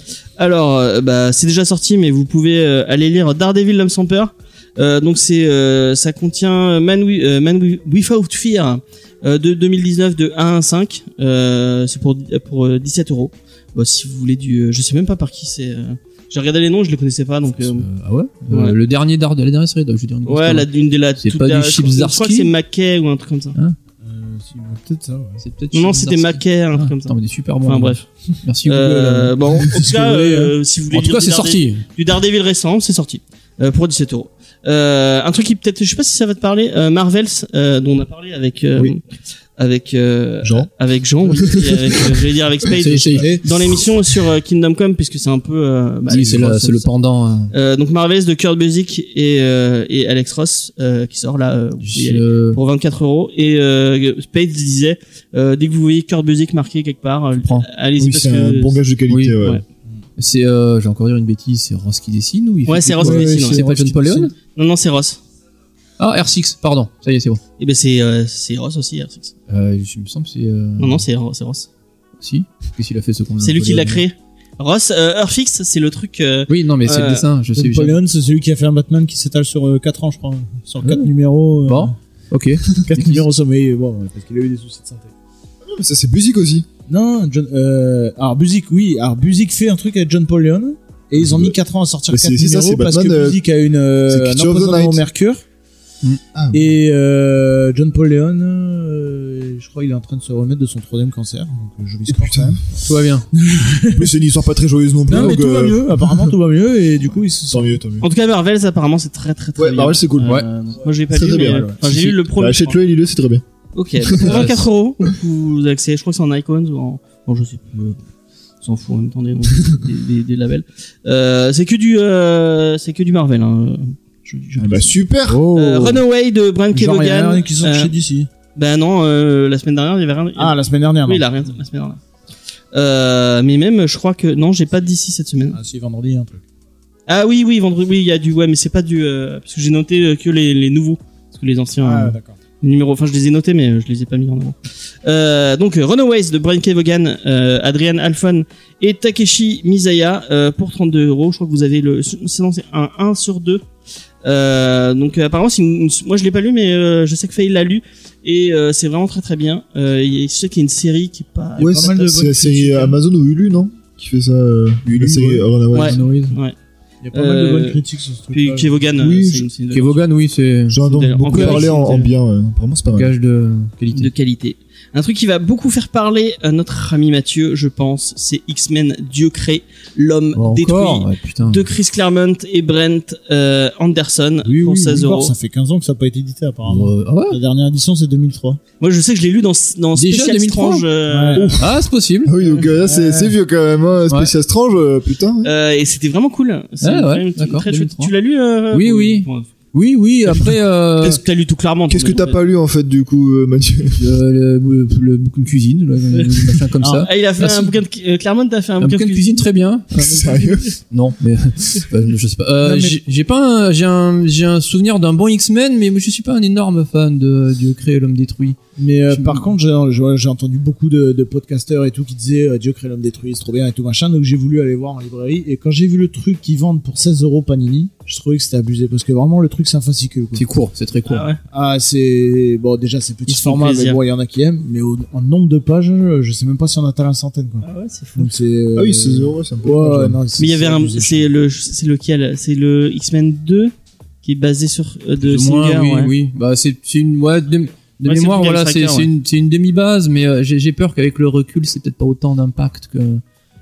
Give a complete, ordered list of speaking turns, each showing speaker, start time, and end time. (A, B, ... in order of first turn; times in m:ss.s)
0:00.4-0:17.9 A
0:17.5-0:20.7 B
0:18.5-0:18.8 A
0:20.2-0:23.6 A
0:21.2-0:22.5 B
0:24.0-0:25.4 C
0:25.4-0:30.4 B
0:25.7-0:28.0 A
0:28.6-0:39.0 A
0:29.9-0:30.4 C
0:30.9-0:31.8 B
0:39.6-0:46.9 A
0:40.4-0:40.7 D
0:41.3-0:42.2 D
0:42.7-0:43.4 B
0:46.1-0:47.5 B
0:47.5-0:58.8 A
0:51.8-0:52.6 B
0:58.0-0:59.6 D
0:59.1-0:59.4 B
1:00.2-1:04.3 B
1:02.6-1:03.6 A
1:02.9-1:04.3 C
1:04.5-1:05.2 A
1:06.0-1:07.4 B
1:07.6-1:09.3 A
1:09.5-1:11.0 B
1:10.8-1:11.7 A
1:12.2-1:14.0 B
1:13.4-1:17.2 A
1:16.5-1:18.0 B
1:17.5-1:21.9 C
1:20.8-1:21.1 B
1:21.6-1:23.2 B
1:22.8-1:25.1 C
1:25.6-1:26.7 D
1:26.9-1:35.4 C
1:31.2-1:31.5 D
1:32.1-1:33.4 D
1:34.1-1:35.0 D
1:36.3-1:36.7 D
1:36.5-1:42.7 C
1:42.1-1:42.6 D
1:42.8-1:43.3 B
1:43.3-1:44.1 C
1:43.9-1:46.3 D
1:45.1-1:47.8 C
1:47.5-1:48.1 D
1:48.0-1:52.8 A
1:49.6-1:50.4 D
1:50.3-1:51.8 C
1:51.1-1:51.7 D
1:51.8-1:52.2 B
1:52.3-1:53.4 D
1:53.7-1:58.0 A
1:54.0-1:54.4 D
1:54.2-1:54.6 B
1:58.6-2:04.9 A
2:04.6-2:05.4 D
2:05.3-2:06.0 C
2:05.5-2:07.9 A
2:06.7-2:08.3 C
2:08.5-2:12.0 A
2:10.4-2:11.2 C
2:12.7-2:15.6 A
2:15.5-2:16.4 C
2:17.1-2:33.6 A
2:21.8-2:22.3 C
2:34.2-2:42.0 A
2:41.6-2:46.0 D
2:41.6-2:43.0 C
2:44.9-2:46.4 C
2:45.7-2:46.5 A
2:45.9-2:46.3 B
2:47.0-2:48.7 C
2:47.1-2:47.8 A
2:48.3-2:50.0 A
2:49.0-2:49.5 D
2:49.7-2:51.7 B
2:50.7-2:53.1 D
2:50.8-2:52.1 A
2:52.9-2:54.1 B
2:53.9-3:05.3 A
3:00.3-3:01.6 B
3:04.4-3:08.6 C
3:06.6-3:07.4 B
3:08.8-3:11.6 A
3:09.9-3:10.8 B
3:11.1-3:11.6 C
3:11.5-3:12.3 B
3:12.2-3:15.5 D
3:12.8-3:13.3 C
3:15.4-3:19.5 A
3:16.8-3:18.1 B
3:18.7-3:21.2 B
3:20.3-3:22.4 A
3:21.9-3:24.1 D
3:24.0-3:27.7 B
3:26.1-3:29.4 A
3:28.8-3:38.6 B
3:30.0-3:30.7 D
3:32.6-3:33.0 C
3:38.8-3:50.4 C
3:39.1-3:39.5 B
3:50.3-3:51.3 B
3:51.1-3:51.4 A
3:51.5-4:01.3 C
3:53.3-3:54.0 A
3:57.6-3:58.3 A
3:58.7-4:00.2 D
4:00.4-4:03.7 A
4:04.2-4:06.1 A
4:05.2-4:13.2 B
4:08.0-4:09.1 A